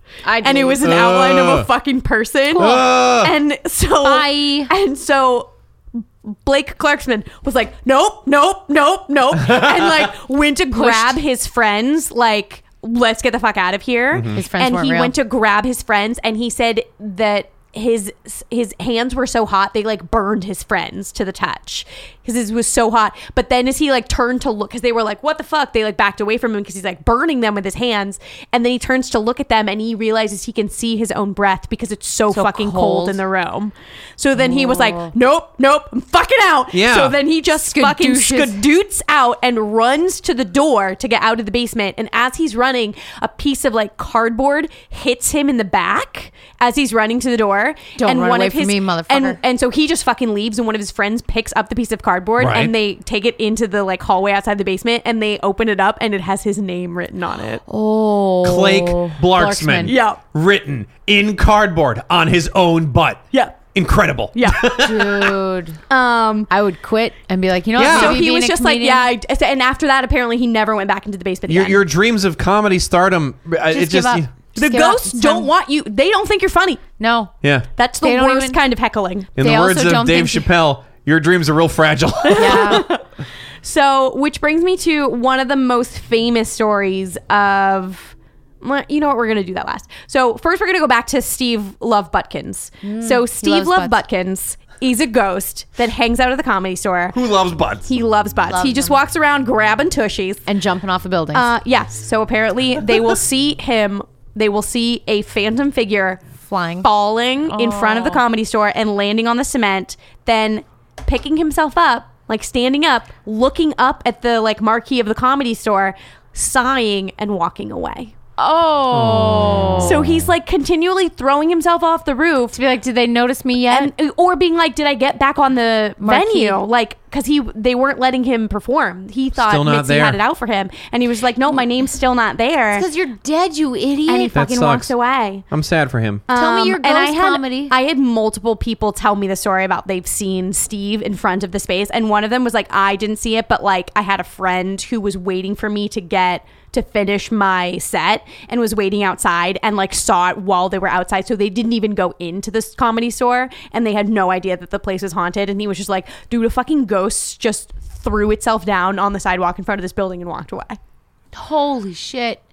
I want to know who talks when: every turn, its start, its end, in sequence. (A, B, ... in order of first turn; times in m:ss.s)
0:00.2-0:00.9 A
0:00.4-0:57.6 B
0:00.8-0:01.7 C
0:02.5-0:02.8 A
0:02.6-0:03.3 C
0:04.0-0:04.7 A
0:09.4-0:10.1 C
0:10.7-0:11.2 A
0:14.1-0:14.4 C
0:14.3-0:15.1 A
0:32.3-0:33.2 A
0:34.4-0:35.1 A
0:36.7-0:37.1 C
0:37.5-0:38.6 A
0:48.0-0:49.4 A
0:52.4-0:52.7 C
0:57.7-0:59.9 A
0:58.4-1:03.2 C
0:59.9-1:00.2 B
1:03.3-1:03.6 B
1:03.7-1:05.4 C
1:04.3-1:04.7 B
1:04.7-1:05.8 A
1:05.9-1:06.5 B
1:06.5-1:09.1 A
1:07.8-1:08.2 C
1:07.8-1:11.8 B
1:11.5-1:14.3 C
1:13.7-1:15.5 A
1:14.6-1:16.8 B
1:17.0-1:17.3 A
1:17.4-1:17.7 C
1:17.8-1:19.3 B
1:18.0-1:18.6 A
1:19.4-1:22.9 C
1:19.4-1:20.5 A
1:22.2-1:23.0 B
1:22.4-1:22.9 A
1:23.6-1:37.2 B
1:32.8-1:34.0 A
1:37.1-1:37.9 C
1:37.8-1:40.5 B
1:38.5-1:39.0 A
1:40.5-1:41.5 A
1:41.3-1:46.2 B
1:46.4-1:46.9 A
1:46.8-1:58.1 B
1:47.4-1:48.2 A
1:58.4-2:00.0 A
1:58.9-2:00.3 C
1:59.8-2:02.6 B
2:02.5-2:03.9 A
2:03.7-2:12.9 B
2:06.0-2:06.6 A
2:09.4-2:10.2 C
2:12.7-2:14.4 A
2:14.0-2:15.4 B
2:14.3-2:14.9 C
2:15.5-2:16.2 C
2:16.3-2:40.8 B
2:16.3-2:17.7 A
2:41.3-2:42.4 A